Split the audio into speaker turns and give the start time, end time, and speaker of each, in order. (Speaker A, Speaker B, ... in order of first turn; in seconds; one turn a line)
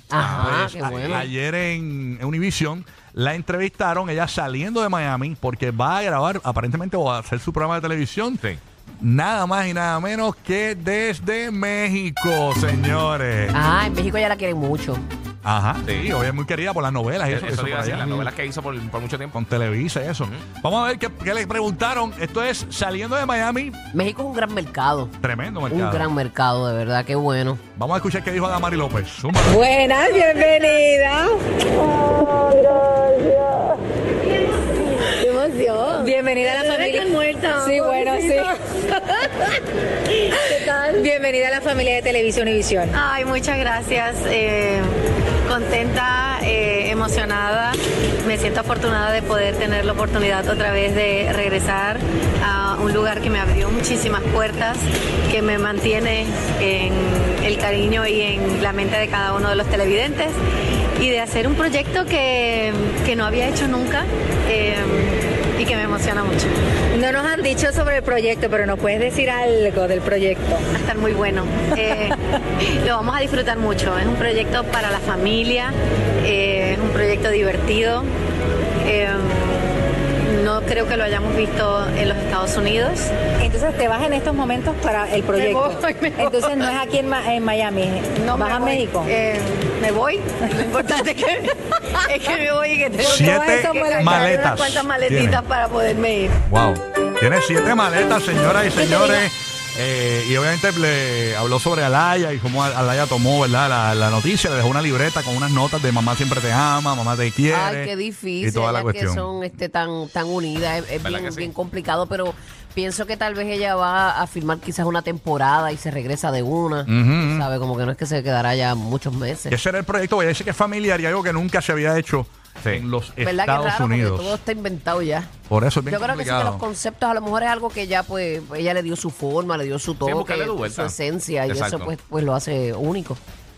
Speaker A: 0.1-1.3
Speaker B: 0.2-1.2
Speaker C: 0.3-8.4
Speaker C: 9.0-13.6
Speaker A: 13.5-15.0
Speaker C: 15.4-18.2
Speaker B: 15.8-16.1
Speaker B: 17.3-19.4
Speaker A: 18.0-18.3
Speaker C: 19.3-23.8
Speaker A: 23.9-25.1
Speaker C: 25.2-26.1
Speaker A: 25.7-27.6
Speaker C: 27.8-29.6
Speaker D: 29.4-31.4
Speaker E: 32.5-33.6
Speaker E: 35.0-38.5
Speaker D: 35.9-38.5
Speaker D: 40.5-43.0
Speaker E: 42.9-44.9
Speaker E: 45.5-60.4
Speaker E: 61.0-66.5
Speaker D: 66.9-70.7
Speaker E: 70.7-78.1
Speaker E: 78.8-83.1
Speaker D: 83.4-89.1
Speaker E: 85.3-86.6
Speaker E: 88.1-96.4
Speaker D: 93.0-94.5
Speaker C: 93.0-95.4
Speaker C: 96.5-109.3
Speaker A: 107.5-119.6
Speaker B: 111.0-111.5
Speaker C: 116.9-117.5
Speaker C: 119.5-124.4
Speaker A: 123.2-125.3
Speaker C: 125.5-126.6
Speaker A: 125.8-133.2
Speaker B: 130.0-131.9